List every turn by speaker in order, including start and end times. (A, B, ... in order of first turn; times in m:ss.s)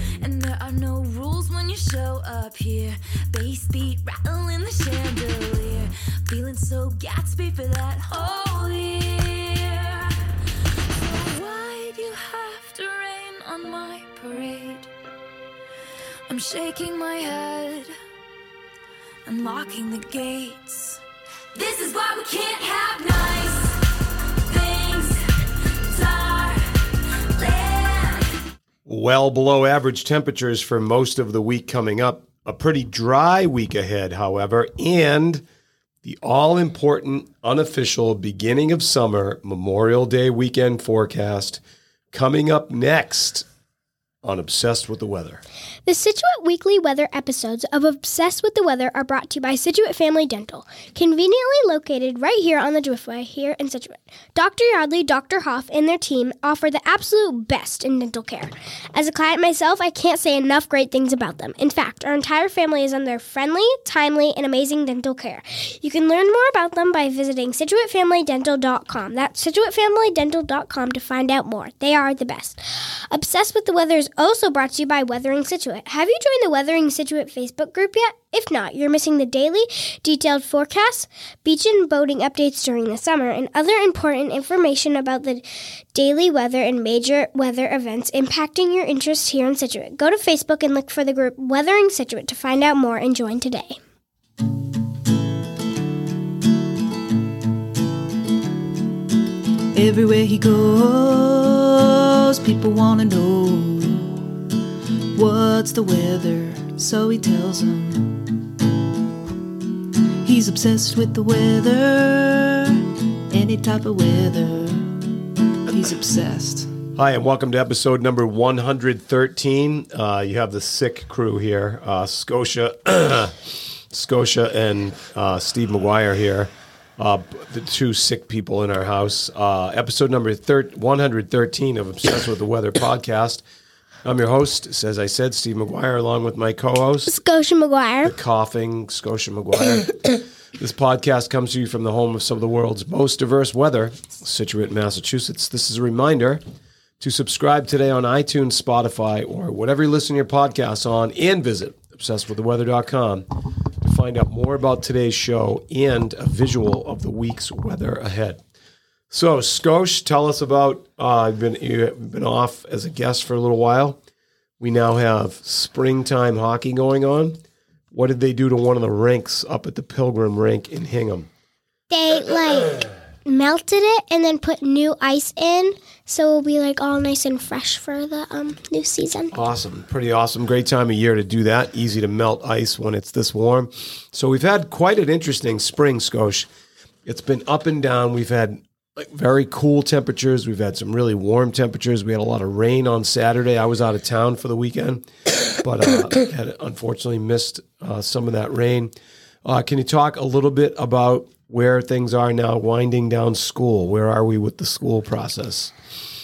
0:00.2-0:10.3 A
0:10.9-0:14.9 A
0:16.3-0:17.9 A
0:19.2-0:21.0 A
0:21.5-0:23.8 A
0:24.4-0:28.4 A
0:28.8-0:35.4 B
0:36.0-0:41.6 B
0:42.1-0:43.5 B
0:44.2-0:45.4 B
0:45.8-1:33.8 C
1:39.7-1:44.2 D
1:45.1-1:48.2 D
1:50.2-1:55.1 D
1:55.7-1:56.7 D
1:56.9-2:13.4 B
2:14.0-2:17.1 B
2:17.0-2:18.1 C
2:18.0-2:26.4 B
2:27.0-2:33.3 B
2:33.8-2:38.4 B
2:39.1-2:44.0 B
2:44.6-2:47.4 B
2:47.9-2:51.3 B
2:51.9-2:59.3 C
2:59.3-3:06.5 B
3:07.0-3:15.0 B
3:15.6-3:18.9 B
3:19.4-3:25.7 B